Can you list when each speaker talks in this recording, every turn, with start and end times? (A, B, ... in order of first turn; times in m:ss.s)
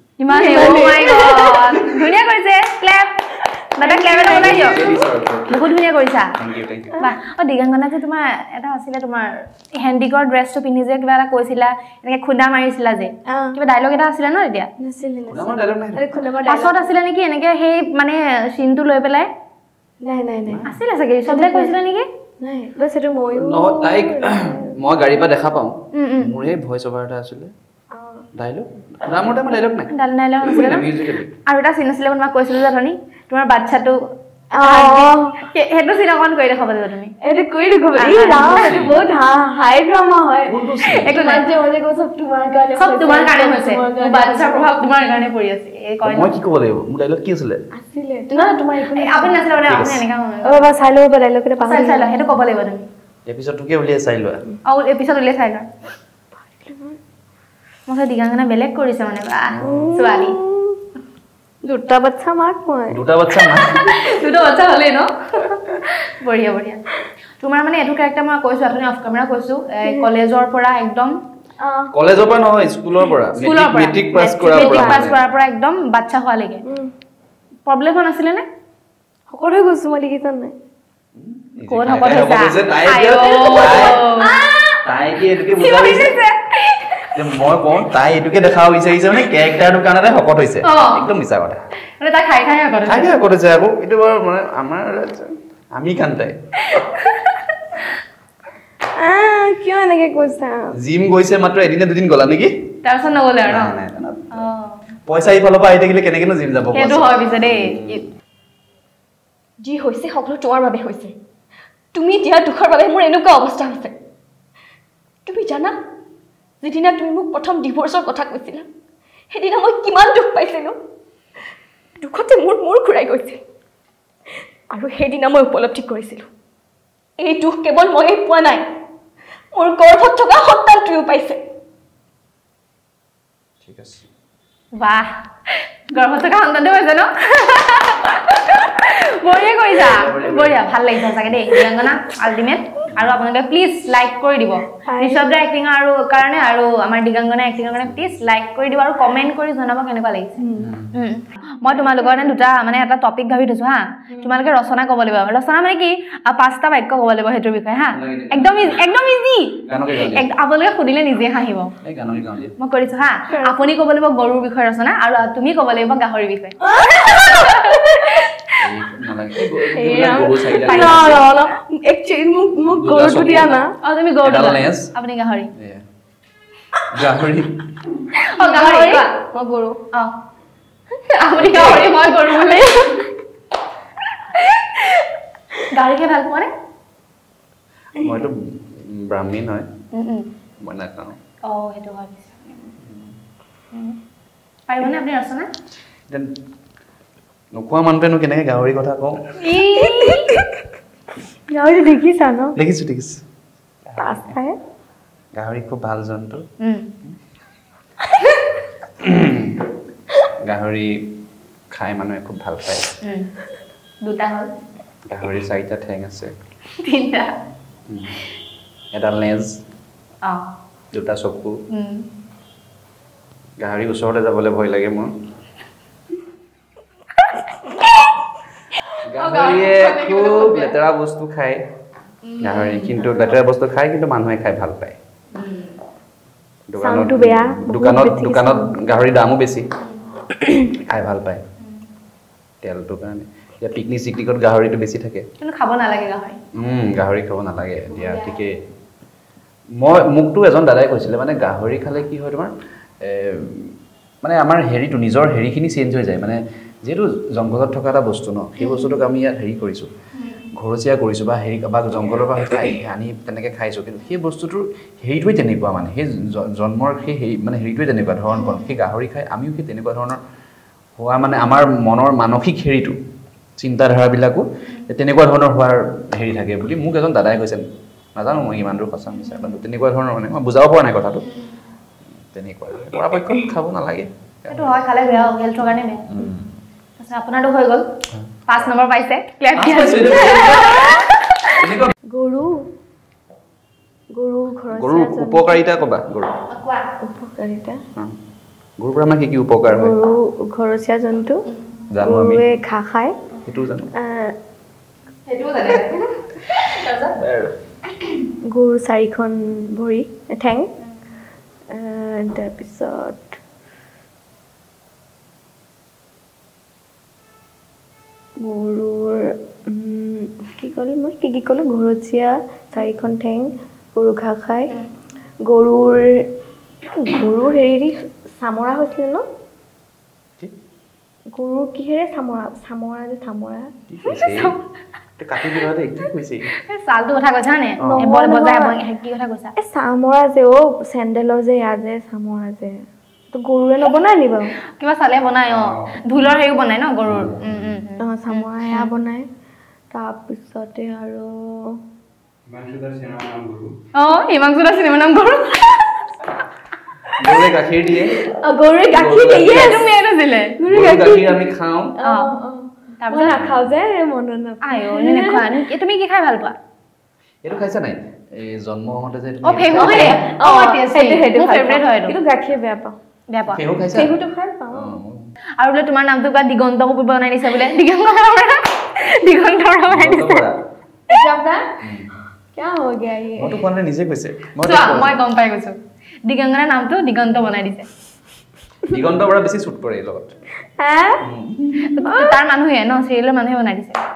0:00.2-0:04.9 A
0:00.3-0:01.8 B
0:03.8-0:05.0 B
0:04.2-0:05.7 C
0:05.5-0:06.3 A
0:06.4-0:07.0 C
0:07.0-0:14.7 A
0:13.3-0:13.6 B
0:14.8-0:16.9 B
0:15.3-0:16.0 C
0:16.5-0:19.3 A
0:20.0-0:20.7 B
0:20.5-0:20.7 C
0:20.7-0:22.1 A
0:21.3-0:21.7 B
0:22.4-0:24.8 B
0:23.3-0:27.5 C
0:25.9-0:26.4 A
0:27.9-0:28.3 B
0:28.4-0:31.3 C
0:29.9-0:30.9 A
0:31.5-0:34.0 A
0:34.5-0:35.5 B
0:34.6-0:37.2 A
0:37.2-0:44.8 B
0:38.0-0:38.9 A
0:38.5-0:39.0 C
0:40.5-0:41.2 C
0:40.9-0:41.5 A
0:42.8-0:46.3 A
0:46.0-0:47.6 C
0:47.7-0:49.5 B
0:48.4-0:50.7 A
0:49.6-0:50.0 C
0:50.4-0:52.1 B
0:51.6-0:52.8 A
0:53.3-0:54.4 C
0:54.6-0:55.7 A
0:56.4-0:57.0 B
0:57.9-1:00.4 A
0:59.5-1:00.0 C
0:59.6-1:00.8 B
1:01.6-1:03.0 B
1:02.9-1:03.7 C
1:03.7-1:06.8 A
1:03.7-1:04.0 B
1:07.4-1:11.2 A
1:11.6-1:12.0 B
1:11.9-1:15.2 C
1:13.3-1:16.6 A
1:14.6-1:15.1 B
1:16.6-1:16.9 B
1:17.7-1:18.5 A
1:19.3-1:20.6 B
1:21.2-1:24.0 C
1:21.7-1:24.4 A
1:23.2-1:24.9 B
1:24.8-1:26.2 C
1:25.6-1:27.1 A
1:27.2-1:31.7 C
1:30.6-1:31.0 A
1:32.0-1:33.1 A
1:32.9-1:36.4 C
1:37.0-1:37.4 A
1:39.0-1:40.8 B
1:40.8-1:42.6 C
1:42.8-1:43.7 A
1:43.5-1:44.5 C
1:44.3-1:44.8 A
1:45.1-1:48.0 C
1:46.7-1:48.0 A
1:49.6-1:51.2 B
1:51.9-1:54.0 B
1:55.3-1:55.8 B
1:56.6-1:58.7 B
1:59.3-2:00.8 B
2:02.0-2:03.4 B
2:04.7-2:06.3 B
2:07.2-2:08.7 B
2:09.5-2:11.4 B
2:13.6-2:14.1 C
2:14.8-2:15.2 A
2:15.9-2:30.4 A
2:19.8-2:21.3 C
2:22.9-2:23.2 C
2:24.8-2:25.4 B
2:30.4-2:30.8 B
2:30.6-2:31.0 C
2:30.9-2:41.7 A
2:37.9-2:38.8 C
2:39.7-2:40.3 C
2:41.8-2:42.6 C
2:42.6-2:46.6 A
2:43.3-2:43.6 B
2:46.6-2:48.4 B
2:47.3-2:48.2 A
2:48.6-2:51.2 C
2:49.6-2:53.7 B
2:50.5-2:51.3 A
2:52.7-2:53.6 C
2:53.8-2:55.5 A
2:54.2-2:54.9 C
2:55.5-2:55.8 C
2:56.9-2:57.6 C
2:58.2-2:59.1 A
2:58.4-2:59.8 B
3:01.0-3:03.1 A
3:01.4-3:01.9 C
3:02.5-3:03.0 B
3:04.4-3:05.0 A
3:05.6-3:06.5 A
3:08.0-3:09.7 C
3:09.9-3:10.3 A
3:10.6-3:11.2 C
3:11.4-3:12.6 A
3:12.8-3:13.1 C
3:14.7-3:15.5 A
3:17.5-3:19.2 C
3:19.4-3:20.3 A
3:19.7-3:20.5 B
3:21.5-3:22.6 B
3:22.6-3:23.2 C
3:23.9-3:24.4 C
3:24.0-3:24.6 B
3:25.4-3:26.5 C
3:26.6-3:26.9 A
3:29.0-3:29.7 C
3:30.4-3:31.0 C
3:31.7-3:33.0 C
3:33.0-3:33.3 A
3:34.0-3:34.5 A
3:35.1-3:36.3 C
3:36.8-3:37.4 A
3:37.9-3:38.2 C
3:38.9-3:39.6 C
3:40.2-3:40.5 A
3:40.9-3:41.6 C
3:41.7-3:42.1 A
3:43.6-3:45.1 C
3:49.0-3:51.7 C
3:49.2-3:50.8 A
3:52.3-3:53.3 A
3:52.4-3:55.0 C
3:55.3-3:55.7 A
3:56.7-3:59.7 C
3:56.8-3:58.8 B
4:00.6-4:01.4 C
4:02.6-4:05.3 C
4:05.4-4:06.4 A
4:06.5-4:08.6 C
4:08.0-4:08.3 A
4:09.8-4:19.9 C
4:18.6-4:18.9 A
4:20.2-4:20.4 A
4:20.5-4:30.2 C
4:28.4-4:28.7 A
4:31.0-4:33.0 C
4:33.6-4:41.3 C
4:42.3-4:44.8 C
4:44.5-4:46.1 A
4:46.1-4:46.5 C
4:47.0-4:47.8 A
4:48.1-4:48.7 C
4:48.5-4:51.0 A
4:49.6-4:51.0 C
4:51.6-4:51.9 C
4:52.1-4:52.7 B
4:54.1-4:55.6 B
4:54.7-4:56.4 C
4:56.5-4:56.8 A
4:57.0-4:57.8 B
4:58.8-5:00.0 C
4:59.7-5:01.5 B
5:01.9-5:02.5 C
5:02.0-5:03.2 B
5:03.5-5:03.9 C
5:03.9-5:04.4 B
5:05.3-5:07.2 A
5:07.2-5:07.6 C
5:08.4-5:10.7 B
5:11.7-5:13.4 B
5:18.4-5:24.8 B
5:25.4-5:26.3 B
5:26.9-5:29.2 B
5:31.3-5:33.7 B
5:33.9-5:34.6 C
5:34.2-5:34.6 A
5:35.2-5:36.5 C
5:36.6-5:39.5 A
5:37.8-5:38.0 C
5:37.8-5:38.8 B
5:39.6-5:44.6 B
5:44.8-5:48.9 A
5:45.5-5:45.9 C
5:47.0-5:47.8 C
5:48.0-5:49.3 B
5:49.9-5:51.8 B
5:52.5-5:53.8 C
5:53.9-5:56.1 A
5:57.2-5:58.2 C
5:58.2-5:59.9 B
5:58.9-5:59.9 C
5:59.5-6:00.6 A
6:00.6-6:01.4 B
6:00.6-6:02.0 C
6:01.9-6:05.5 B
6:02.0-6:02.3 A
6:03.0-6:03.4 A
6:03.3-6:03.6 C
6:04.6-6:06.6 A
6:07.4-6:10.2 C
6:09.4-6:12.2 A
6:09.8-6:13.0 B
6:13.3-6:13.7 A
6:13.5-6:14.2 C
6:13.9-6:15.0 B
6:14.7-6:15.3 C
6:15.6-6:20.5 A
6:19.9-6:20.6 C
6:21.1-6:21.8 B
6:21.8-6:22.1 C
6:22.5-6:23.6 B
6:23.4-6:25.2 C
6:24.6-6:27.9 A
6:28.9-6:30.4 C
6:30.8-6:31.2 B
6:31.2-6:32.0 C
6:31.8-6:34.0 A
6:32.0-6:32.4 B